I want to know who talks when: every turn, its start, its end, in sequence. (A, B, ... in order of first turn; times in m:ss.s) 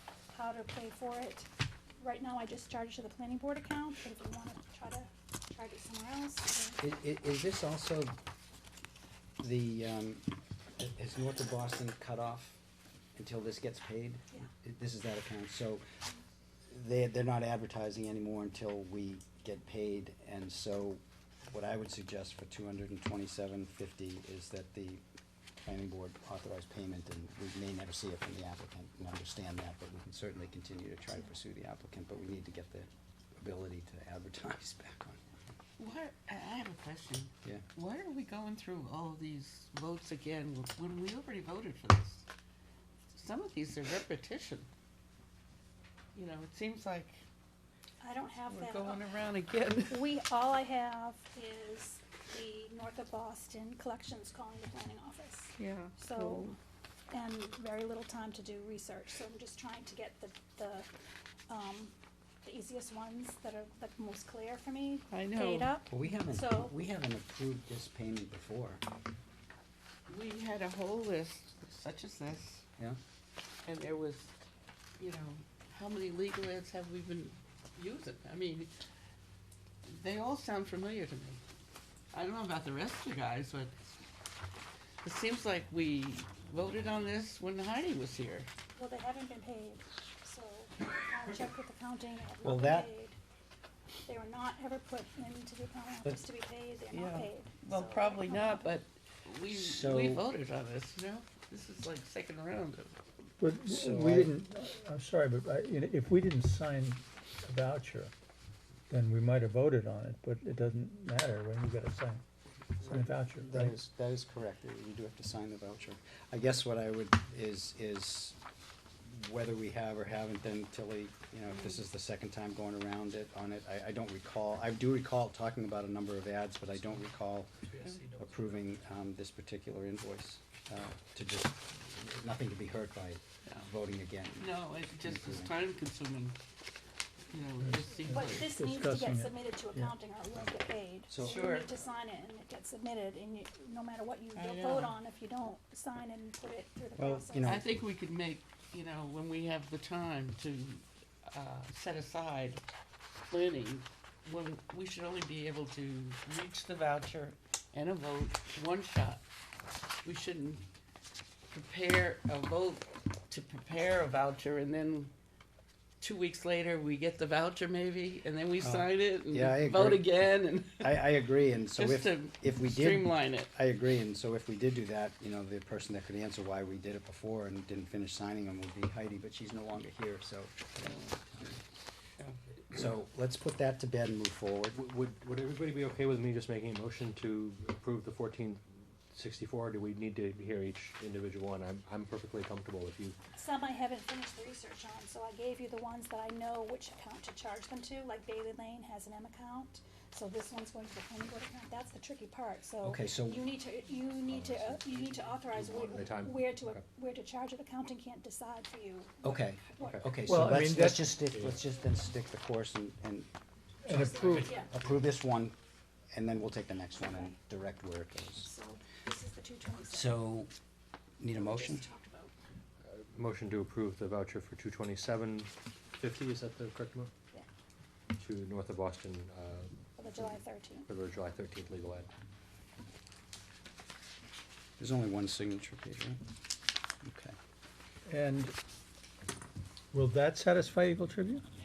0:00.3-0:06.8 A
0:06.8-0:08.1 B
0:09.4-0:10.2 B
0:10.8-0:12.6 B
0:13.1-0:15.8 B
0:16.7-0:25.0 B
0:25.6-0:32.9 B
0:33.4-0:35.2 B
0:35.8-0:42.2 C
0:43.1-0:44.7 C
0:46.1-0:47.2 C
0:48.0-0:49.0 A
0:48.5-0:50.1 C
0:49.9-0:56.6 A
0:55.6-0:56.5 C
0:57.1-1:00.9 A
1:01.5-1:06.7 A
1:05.1-1:05.7 C
1:05.9-1:08.8 B
1:10.1-1:12.6 C
1:13.6-1:14.3 C
1:15.0-1:18.7 C
1:19.8-1:21.4 C
1:22.1-1:23.7 C
1:25.0-1:28.5 C
1:28.8-1:33.2 A
1:32.4-1:32.9 B
1:34.0-1:38.8 A
1:36.9-1:43.0 C
1:39.5-1:40.2 B
1:43.4-1:48.1 D
1:43.6-1:44.3 B
1:48.9-1:52.2 D
1:52.8-1:53.8 D
1:52.8-1:58.4 B
1:59.0-2:07.5 B
2:07.8-2:08.1 C
2:08.2-2:15.5 B
2:14.4-2:16.4 C
2:17.3-2:18.5 C
2:17.6-2:19.9 D
2:18.1-2:27.6 A
2:21.1-2:21.5 B
2:21.2-2:21.7 C
2:24.3-2:25.0 C
2:27.0-2:27.6 B
2:27.4-2:32.6 C
2:33.3-2:39.2 C
2:40.0-2:40.6 C
2:41.5-2:45.1 C
2:46.0-2:51.2 C
2:48.6-2:50.1 B
2:50.8-3:01.6 B
2:51.8-2:53.5 C
3:02.7-3:04.8 B
3:04.7-3:13.2 E
3:13.4-3:30.0 A
3:22.8-3:23.4 B
3:24.4-3:24.8 E
3:25.4-3:26.8 E
3:29.2-3:33.3 B
3:29.8-3:30.0 E
3:30.2-3:31.2 D
3:31.3-3:31.6 E
3:33.8-3:34.5 D
3:33.9-3:34.7 A
3:34.4-3:35.6 B
3:36.1-3:38.5 B
3:37.0-3:37.3 A
3:38.4-3:40.2 A
3:39.9-3:40.5 B
3:41.2-3:41.8 B
3:41.3-3:42.3 A
3:42.9-3:47.1 E
3:48.2-3:49.7 E
3:50.0-3:50.9 A
3:50.9-3:52.1 E
3:54.8-3:56.2 B
3:57.0-3:57.3 B
3:58.1-3:58.5 D
3:59.9-4:01.4 D